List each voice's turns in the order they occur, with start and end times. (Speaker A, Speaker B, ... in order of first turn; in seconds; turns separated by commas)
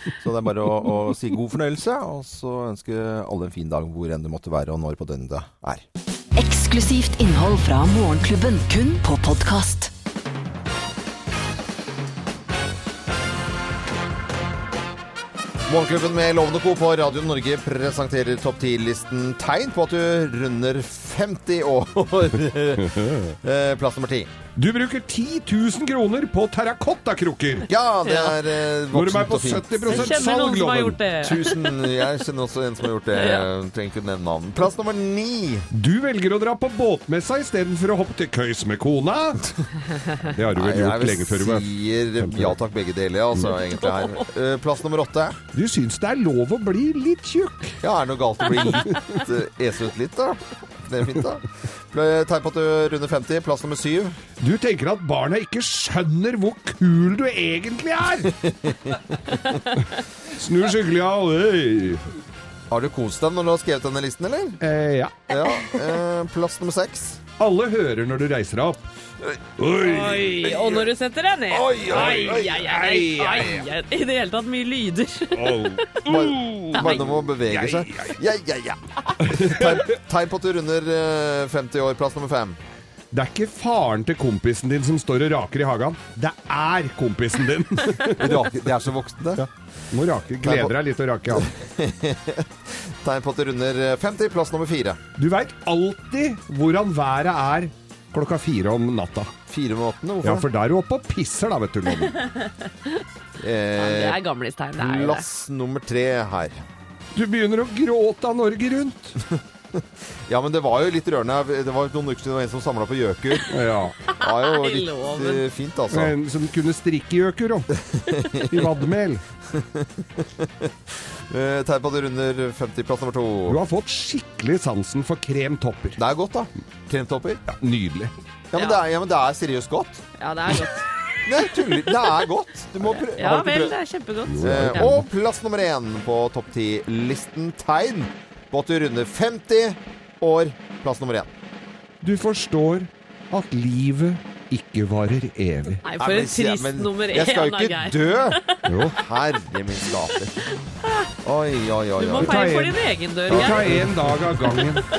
Speaker A: 0.2-5.8, Speaker B: 6.3-9.9, Speaker A: 15.7-24.3, Speaker C: 22.8-23.3, Speaker C: 24.6-27.7, Speaker A: 27.7-30.2, Speaker D: 28.0-28.3, Speaker C: 28.9-31.0, Speaker D: 29.9-31.6, Speaker A: 31.2-35.7, Speaker D: 33.1-33.5, Speaker C: 35.7-39.6, Speaker C: 40.1-42.6, Speaker A: 40.5-45.4, Speaker D: 43.6-44.3, Speaker C: 45.5-47.8, Speaker A: 47.8-54.2, Speaker C: 54.4-58.4, Speaker A: 58.3-59.0, Speaker C: 59.7-62.0, Speaker A: 62.7-64.6, Speaker C: 64.6-65.2, Speaker A: 65.3-67.2, Speaker D: 65.4-65.7, Speaker C: 67.4-68.9, Speaker C: 69.6-70.9, Speaker D: 69.8-75.8, Speaker C: 71.5-73.6, Speaker A: 71.6-72.3, Speaker C: 75.3-78.2, Speaker A: 76.0-82.6, Speaker D: 76.7-77.0, Speaker C: 79.2-80.0, Speaker C: 83.1-88.5, Speaker A: 88.0-89.5, Speaker C: 89.3-91.5, Speaker A: 90.4-90.7, Speaker A: 91.3-95.0, Speaker C: 95.2-99.3, Speaker A: 99.5-100.5, Speaker C: 100.2-102.3, Speaker A: 103.4-104.2, Speaker D: 103.8-105.2, Speaker A: 104.8-106.6, Speaker C: 107.1-109.2, Speaker A: 110.3-113.5, Speaker C: 113.5-113.9, Speaker D: 114.0-115.4, Speaker A: 114.2-116.1, Speaker C: 115.9-117.7, Speaker A: 117.8-118.7, Speaker C: 118.4-119.2, Speaker A: 119.5-120.7, Speaker A: 121.3-123.6, Speaker C: 123.5-126.0, Speaker A: 126.0-127.4, Speaker C: 127.5-128.1, Speaker A: 128.5-130.0, Speaker D: 130.2-132.0, Speaker A: 131.2-133.7, Speaker D: 132.9-135.0, Speaker C: 134.2-135.1, Speaker A: 134.4-141.3, Speaker C: 142.0-145.8, Speaker D: 145.8-148.7, Speaker A: 145.9-150.4, Speaker C: 148.7-149.0, Speaker D: 150.8-151.1, Speaker A: 151.2-152.4, Speaker D: 152.0-153.7, Speaker C: 152.2-154.8, Speaker A: 153.3-154.2